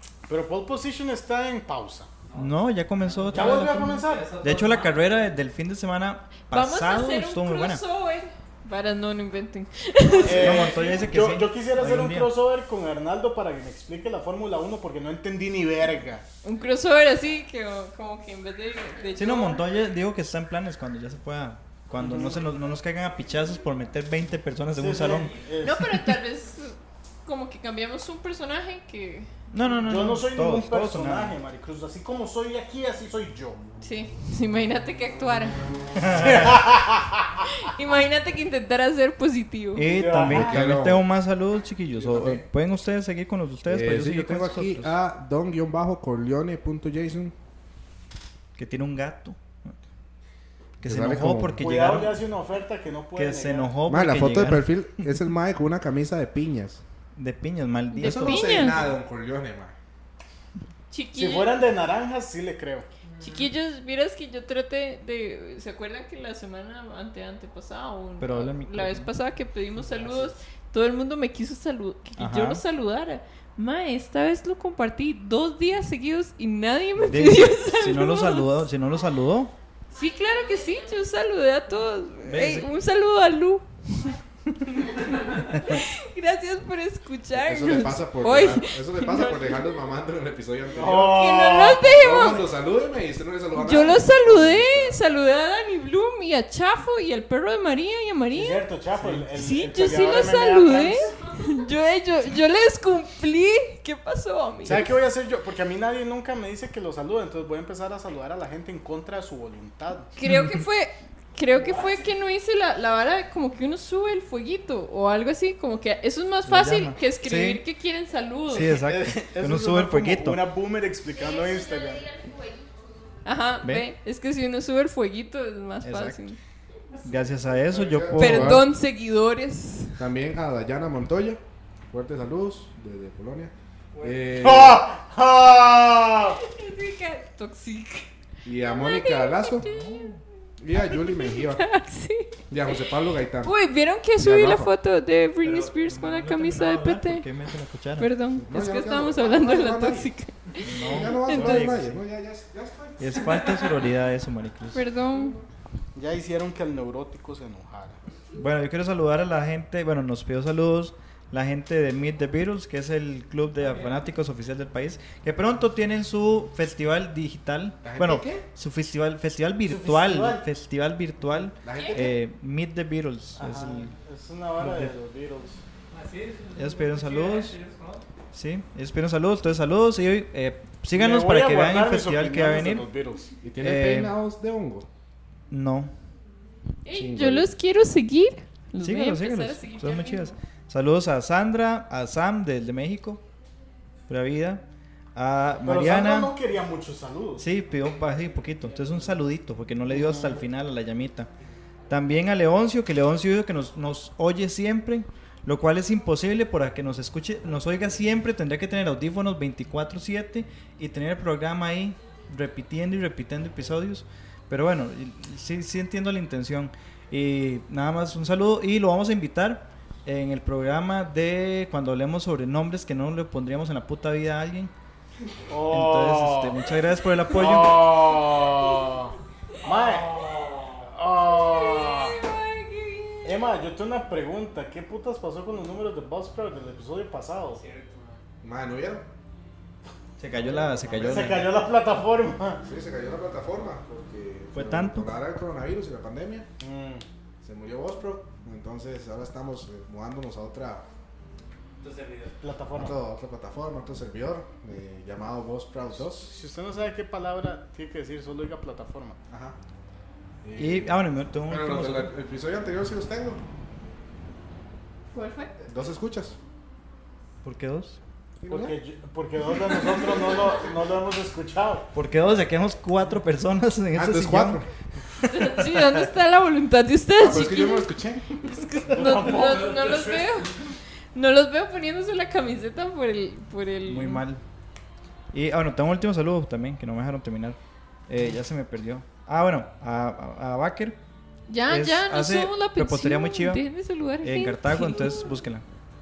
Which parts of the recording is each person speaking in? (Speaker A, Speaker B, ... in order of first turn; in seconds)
Speaker A: 0.3-2.1, 3.3-4.4, 10.2-16.2, 22.0-22.4, 24.7-26.1, 29.8-33.6, 36.1-37.2, 39.8-40.6, 51.6-53.7, 61.1-62.9, 90.7-91.8, 98.3-101.2, 104.6-110.1, 118.6-122.1, 134.4-136.4, 155.9-158.0, 169.6-170.4, 173.4-175.6, 180.9-183.3, 195.6-197.4, 199.9-200.4, 225.5-226.6, 227.3-229.1, 229.6-230.2, 230.9-232.2, 233.2-237.6, 240.4-242.6, 246.6-247.0, 252.4-252.9, 256.2-259.2, 268.5-271.9, 278.9-279.8
Speaker B: 2.3-5.1, 10.1-10.8, 25.1-25.4, 63.1-63.4, 133.9-134.3, 175.9-178.0, 229.6-230.9, 237.5-238.2, 251.8-252.4, 279.2-280.7
Speaker C: 2.3-7.8, 10.3-12.3, 19.2-25.3, 29.5-31.3, 36.0-36.6, 39.7-44.9, 48.6-49.7, 50.8-52.2, 53.1-55.1, 57.1-58.5, 68.2-69.1, 72.2-72.6, 77.0-79.5, 82.2-82.7, 99.0-99.2, 110.2-110.6, 116.5-117.6, 118.5-120.4, 123.6-123.9, 125.8-126.2, 127.0-128.7, 139.6-140.2, 145.4-148.1, 150.6-152.0, 153.0-154.8, 158.3-173.9, 174.6-174.9, 176.5-177.6, 178.3-182.8, 183.6-184.1, 185.5-185.9, 188.8-193.2, 194.1-194.6, 195.1-196.3, 197.4-201.3, 201.9-224.7, 225.7-227.8, 240.2-241.5, 244.5-245.1, 260.6-262.1, 267.4-268.0, 271.9-274.6, 283.9-284.4, 285.3-291.0, 291.7-293.6, 294.2-295.6
Speaker D: 6.5-10.9, 16.4-19.6, 25.6-29.3, 33.8-35.7, 37.4-39.9, 57.9-58.8, 60.9-61.5, 63.2-78.6, 79.9-89.6, 91.0-92.4, 93.5-98.7, 99.3-104.9, 110.2-118.8, 123.2-126.4, 128.2-130.0, 136.4-138.1, 138.6-140.1, 140.7-142.4, 143.4-147.2, 148.0-151.8, 154.7-155.3, 171.7-172.1, 186.8-190.3, 228.3-229.0, 231.2-233.4, 265.1-265.6, 275.3-284.2, 291.5-295.4
Speaker E: 40.2-41.0, 43.6-47.3, 50.8-51.6, 53.9-56.8, 58.0-59.7, 87.3-91.2, 91.8-95.0, 127.5-128.7, 130.0-131.4, 131.9-134.8, 138.4-139.6, 140.6-141.7, 142.5-143.5, 144.2-144.7, 148.4-150.1, 150.6-153.4, 167.8-168.4, 171.6-172.1, 183.4-184.9, 186.9-187.5, 238.4-239.1, 240.9-241.4, 242.6-246.5, 247.4-250.8, 252.7-256.3, 259.3-259.6, 260.4-263.4, 265.6-266.4, 268.4-268.8, 273.9-274.7, 277.2-278.4